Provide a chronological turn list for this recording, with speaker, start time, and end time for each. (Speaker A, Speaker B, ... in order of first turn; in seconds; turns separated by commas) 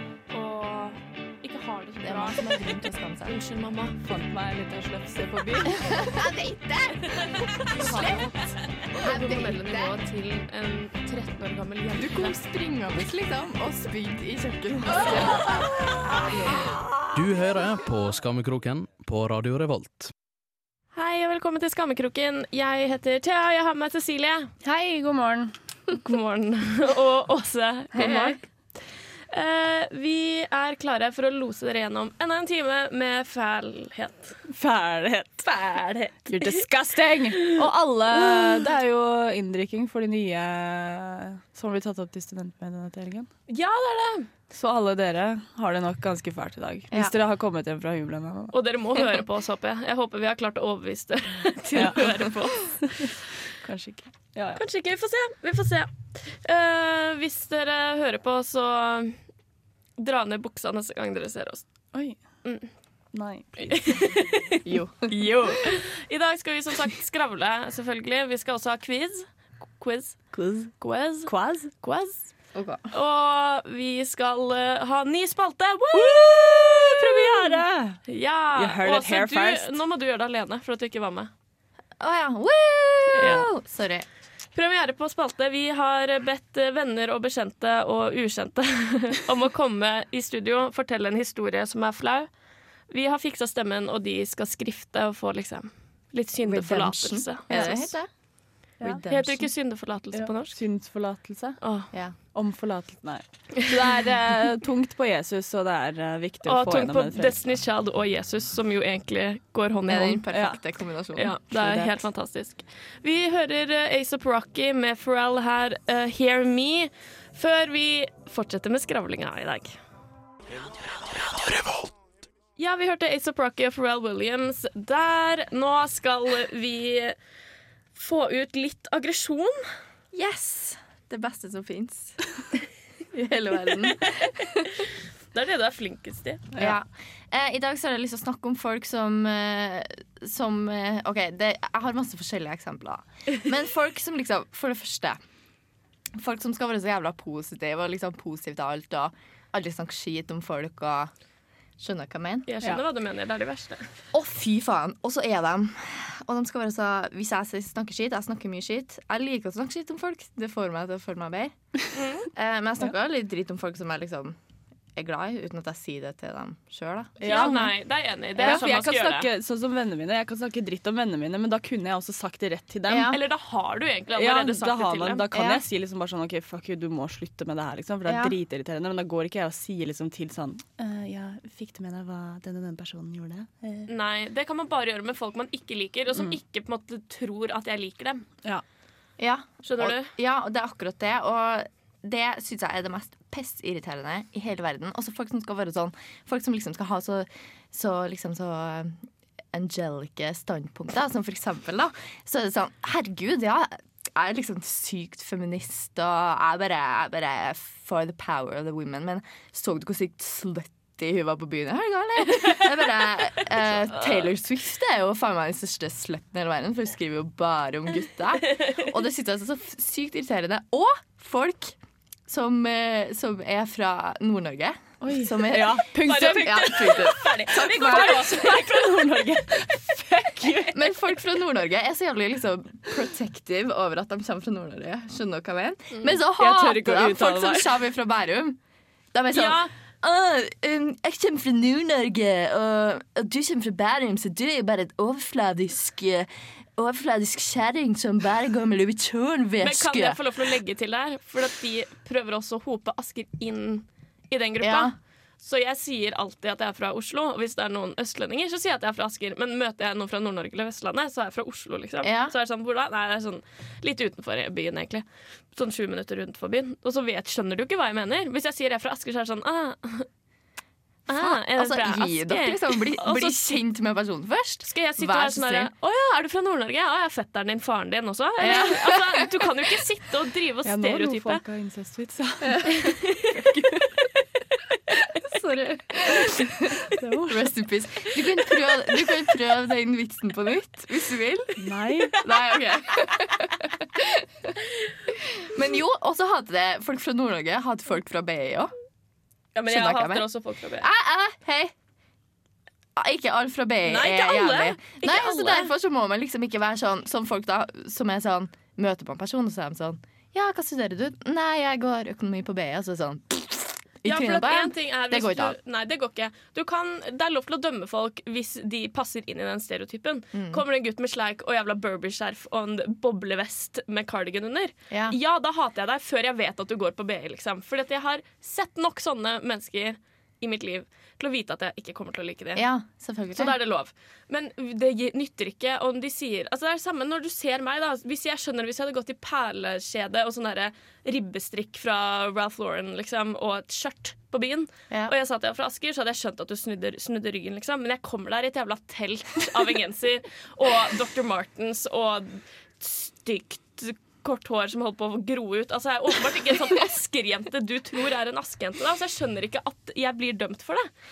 Speaker A: 0.3-2.5, Speaker B: 2.0-3.4, Speaker A: 3.2-4.0, Speaker C: 4.0-6.0, Speaker B: 5.8-8.3, Speaker A: 7.2-8.4, Speaker A: 8.9-12.4, Speaker B: 8.9-10.0, Speaker B: 11.9-16.7, Speaker D: 17.1-20.1, Speaker A: 20.9-24.5, Speaker C: 24.6-25.5, Speaker A: 25.9-34.4, Speaker B: 27.9-28.4, Speaker C: 34.5-35.5, Speaker A: 35.4-36.6, Speaker C: 36.2-43.3, Speaker A: 43.5-44.3, Speaker C: 44.5-48.5, Speaker A: 48.5-53.1, Speaker B: 51.6-52.4, Speaker C: 51.7-52.0, Speaker C: 53.0-54.6, Speaker A: 54.5-59.2, Speaker A: 60.0-61.6, Speaker C: 61.9-62.3, Speaker A: 62.4-62.7, Speaker C: 63.1-64.0, Speaker A: 63.6-72.3, Speaker B: 64.6-65.3, Speaker C: 70.3-70.7, Speaker C: 71.2-71.7, Speaker B: 72.5-72.9, Speaker A: 72.9-81.3, Speaker C: 75.9-78.0, Speaker C: 78.5-79.7, Speaker B: 82.0-84.0, Speaker A: 83.2-83.4, Speaker A: 84.5-92.3, Speaker A: 92.9-98.0, Speaker B: 96.4-98.1, Speaker B: 98.8-99.5, Speaker A: 99.1-100.6, Speaker C: 100.1-101.6, Speaker A: 101.6-101.9, Speaker C: 102.3-107.4, Speaker A: 106.5-110.2, Speaker B: 109.9-111.4, Speaker C: 110.3-110.6, Speaker A: 111.2-119.8, Speaker C: 111.5-111.9, Speaker A: 122.6-127.2, Speaker A: 127.9-129.7, Speaker B: 130.1-132.3, Speaker B: 133.1-134.7, Speaker A: 135.3-136.4, Speaker B: 136.6-145.2, Speaker B: 146.1-151.1, Speaker B: 151.8-152.5, Speaker A: 152.5-153.9, Speaker B: 154.1-161.6, Speaker A: 161.9-162.3, Speaker B: 162.2-164.4, Speaker B: 164.9-167.6, Speaker C: 167.2-167.7, Speaker A: 167.2-169.3, Speaker C: 168.4-173.1, Speaker B: 172.9-173.2, Speaker A: 173.1-175.2, Speaker C: 174.1-183.9, Speaker B: 175.3-175.6, Speaker B: 178.1-178.3, Speaker A: 183.9-188.2, Speaker B: 189.2-199.0, Speaker A: 189.6-190.1, Speaker B: 199.5-228.5, Speaker A: 213.9-214.3, Speaker C: 225.0-230.9, Speaker A: 226.0-229.2, Speaker B: 230.7-238.6, Speaker C: 236.3-237.8, Speaker B: 239.1-250.2, Speaker A: 239.3-239.7, Speaker A: 249.6-270.1, Speaker B: 254.6-254.9, Speaker B: 262.0-262.3, Speaker A: 271.1-273.4, Speaker B: 271.1-275.7, Speaker A: 274.6-281.4, Speaker B: 278.4-279.2, Speaker C: 278.4-278.7, Speaker C: 280.6-282.9, Speaker A: 282.9-283.1, Speaker B: 285.2-286.5, Speaker C: 287.0-287.5, Speaker B: 287.3-291.5, Speaker C: 291.6-292.2, Speaker B: 292.2-294.5, Speaker B: 295.1-298.7, Speaker A: 299.5-300.9, Speaker B: 299.6-300.2, Speaker B: 300.8-301.7, Speaker B: 302.9-315.6, Speaker A: 303.8-305.7, Speaker A: 314.0-332.6, Speaker B: 320.3-320.6, Speaker B: 324.9-325.1, Speaker B: 332.5-333.5, Speaker A: 333.3-360.9